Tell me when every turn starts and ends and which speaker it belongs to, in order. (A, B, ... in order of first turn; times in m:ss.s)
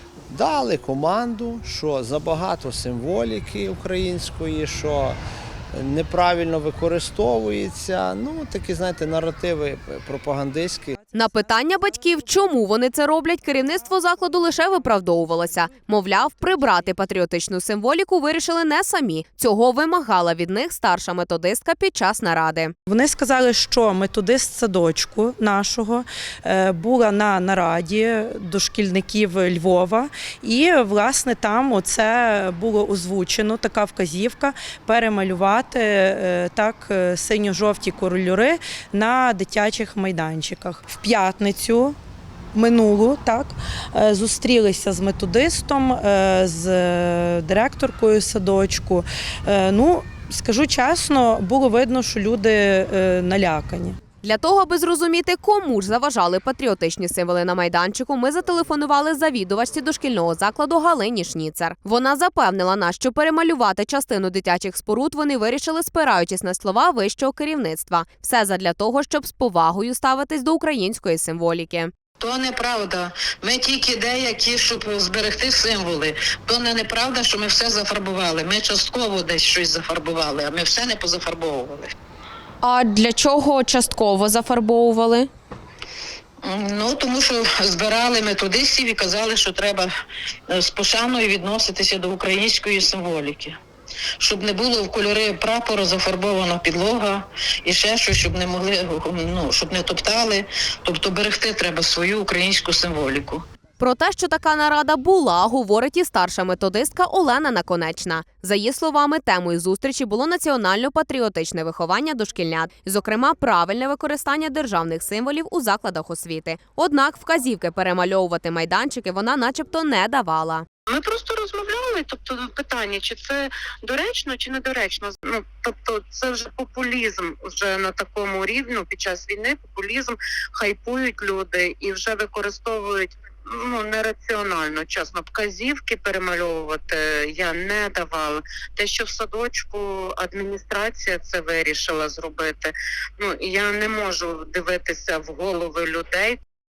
0:00.3-0:05.2 A
0:05.7-0:11.0 A
0:11.0-0:11.5 B
0:11.1-0:22.7 C
0:22.8-0:41.9 B
0:42.5-0:54.0 B
0:54.2-1:11.9 C
1:12.2-1:21.9 D
1:22.6-1:25.3 C
1:26.4-1:29.9 D
1:30.5-1:33.6 D
1:34.2-1:43.4 D
1:43.8-2:00.6 C
2:00.9-2:26.4 E